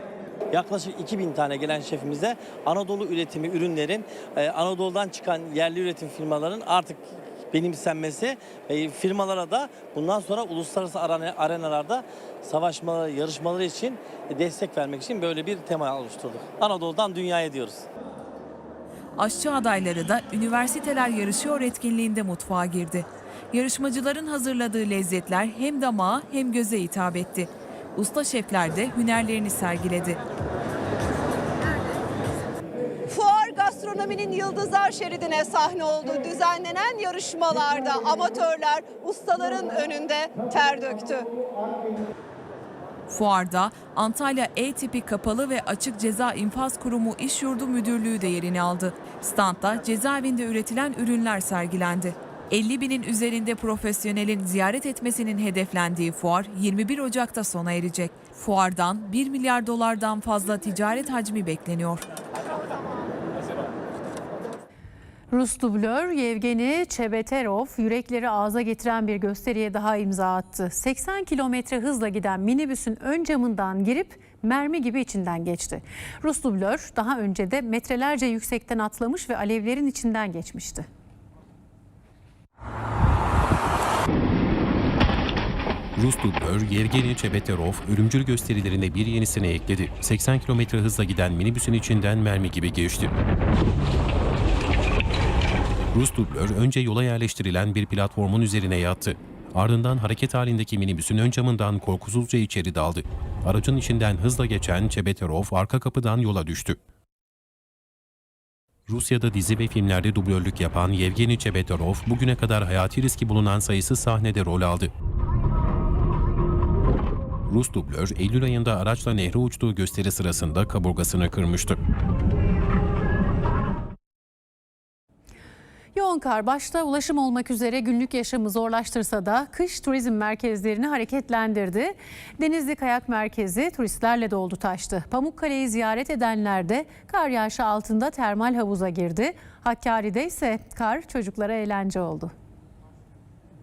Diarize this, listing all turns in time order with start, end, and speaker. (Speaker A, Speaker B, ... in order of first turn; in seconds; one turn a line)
Speaker A: 0.5-17.9
Speaker B: 19.2-30.2
Speaker C: 33.1-41.3
Speaker B: 43.1-62.0
Speaker D: 65.3-80.9
Speaker E: 86.0-93.1
Speaker E: 95.9-106.8
Speaker E: 108.9-114.9
Speaker E: 117.5-121.8
Speaker D: 125.9-142.3